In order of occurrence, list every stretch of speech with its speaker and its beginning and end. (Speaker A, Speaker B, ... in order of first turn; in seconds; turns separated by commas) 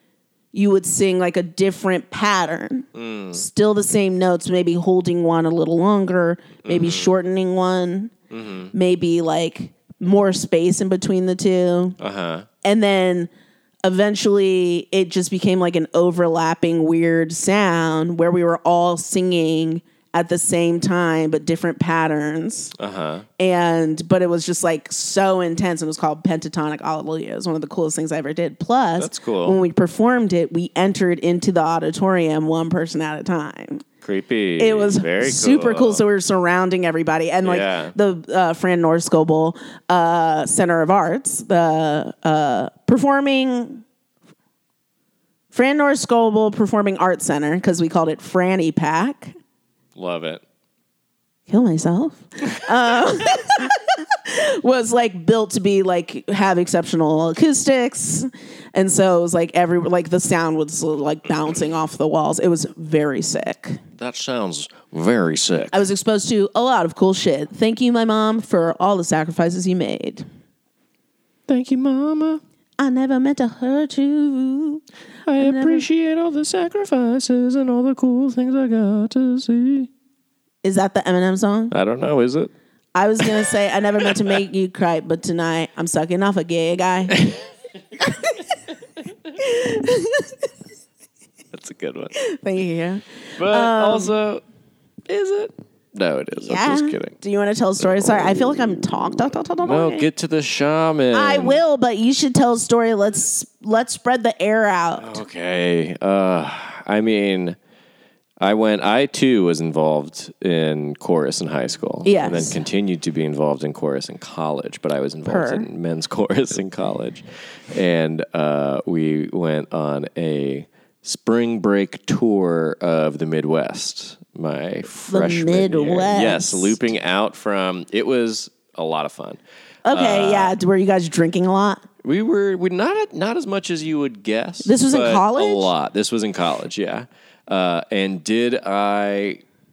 Speaker A: 0.5-8.1, Speaker B: 2.9-3.4, Speaker B: 6.7-7.1, Speaker B: 8.3-8.7, Speaker A: 8.7-12.0, Speaker B: 12.0-12.5, Speaker A: 12.6-13.3, Speaker A: 13.8-22.7, Speaker B: 22.8-23.3, Speaker A: 23.4-33.8, Speaker B: 29.0-29.6, Speaker B: 34.0-36.0, Speaker A: 34.6-43.8, Speaker B: 37.4-37.9, Speaker A: 45.5-49.3, Speaker B: 50.0-50.4, Speaker A: 51.5-63.8, Speaker B: 64.0-65.8, Speaker A: 65.7-70.2, Speaker B: 71.5-72.4, Speaker A: 72.8-74.8, Speaker B: 75.3-79.9, Speaker A: 75.4-75.9, Speaker A: 80.6-81.7, Speaker B: 81.7-82.5, Speaker A: 83.0-87.3, Speaker B: 84.0-84.4, Speaker A: 88.0-88.4, Speaker A: 89.4-90.4, Speaker B: 91.5-92.1, Speaker A: 92.2-94.2, Speaker B: 93.4-94.4, Speaker B: 95.1-97.2, Speaker A: 96.3-100.1, Speaker B: 97.8-98.8, Speaker B: 99.6-101.6, Speaker A: 101.1-105.2, Speaker B: 105.0-107.6, Speaker B: 108.4-130.6, Speaker A: 112.0-112.6, Speaker A: 115.3-115.7, Speaker A: 125.1-126.8, Speaker A: 129.8-131.8, Speaker B: 132.0-139.4, Speaker A: 134.6-135.7